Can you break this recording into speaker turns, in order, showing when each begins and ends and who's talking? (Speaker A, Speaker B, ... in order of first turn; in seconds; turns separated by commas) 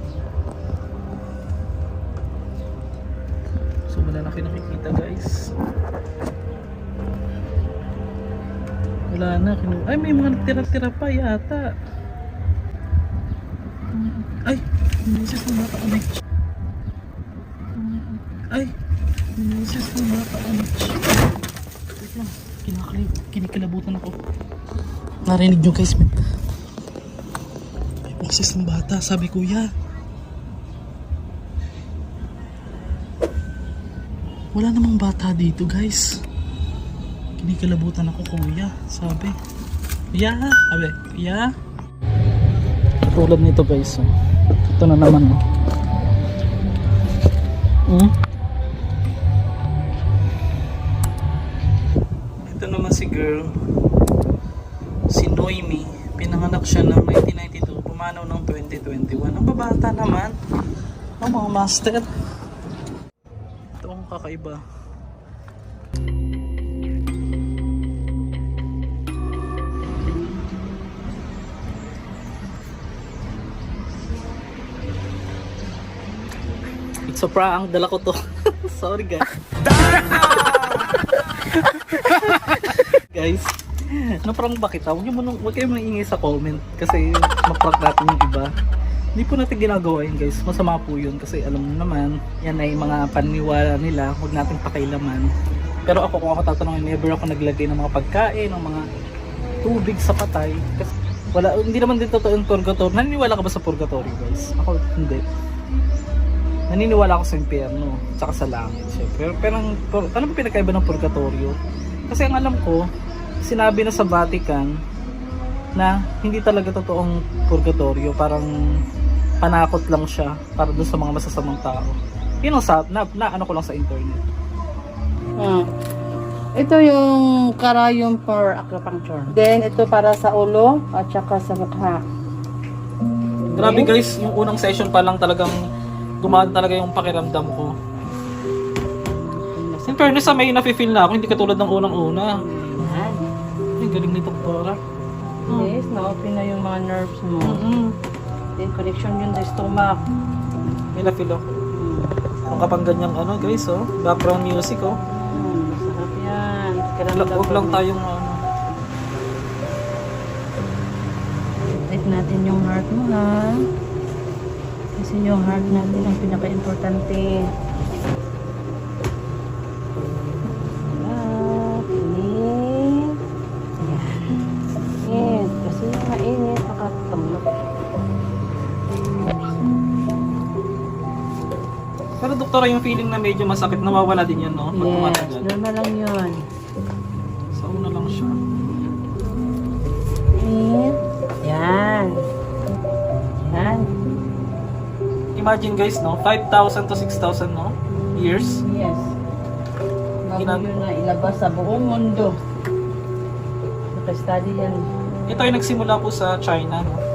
Speaker A: 3.9-5.5, Speaker A: 9.1-11.7, Speaker A: 13.9-16.2, Speaker A: 17.8-18.7, Speaker A: 19.4-21.1, Speaker A: 22.0-24.2, Speaker A: 25.3-26.2, Speaker A: 28.1-29.7, Speaker A: 34.5-36.2, Speaker A: 37.4-39.4, Speaker A: 40.1-41.5, Speaker A: 43.1-44.1, Speaker A: 44.8-45.4, Speaker A: 52.5-53.5, Speaker A: 55.1-60.3, Speaker A: 61.2-62.0, Speaker A: 63.8-64.6, Speaker A: 77.1-80.8, Speaker A: 81.5-88.5, Speaker A: 89.2-95.3, Speaker A: 95.9-98.8, Speaker A: 99.6-105.2, Speaker A: 106.7-111.6, Speaker A: 112.1-112.9, Speaker A: 113.4-114.7, Speaker A: 115.8-118.5, Speaker A: 119.4-124.3, Speaker B: 125.4-125.7, Speaker B: 126.6-132.0, Speaker B: 133.5-133.9, Speaker A: 133.6-135.6, Speaker A: 136.2-137.7, Speaker B: 139.5-140.4, Speaker A: 139.9-142.4, Speaker B: 142.4-143.2, Speaker A: 143.8-144.8, Speaker B: 145.5-147.7, Speaker A: 147.4-147.9, Speaker B: 148.6-150.0, Speaker A: 150.9-151.6, Speaker B: 151.7-152.2, Speaker A: 152.5-154.9, Speaker B: 155.1-157.8, Speaker A: 157.1-158.4, Speaker B: 161.7-163.6, Speaker B: 165.0-167.4, Speaker B: 170.9-173.2, Speaker B: 173.8-174.4, Speaker B: 175.0-177.5, Speaker A: 182.2-185.5, Speaker B: 184.7-186.4, Speaker A: 187.5-188.4, Speaker B: 190.4-192.2, Speaker B: 193.4-193.9, Speaker A: 195.4-198.6, Speaker B: 198.7-199.1, Speaker B: 200.2-202.4, Speaker A: 200.4-200.7, Speaker B: 203.9-204.8, Speaker A: 205.3-207.0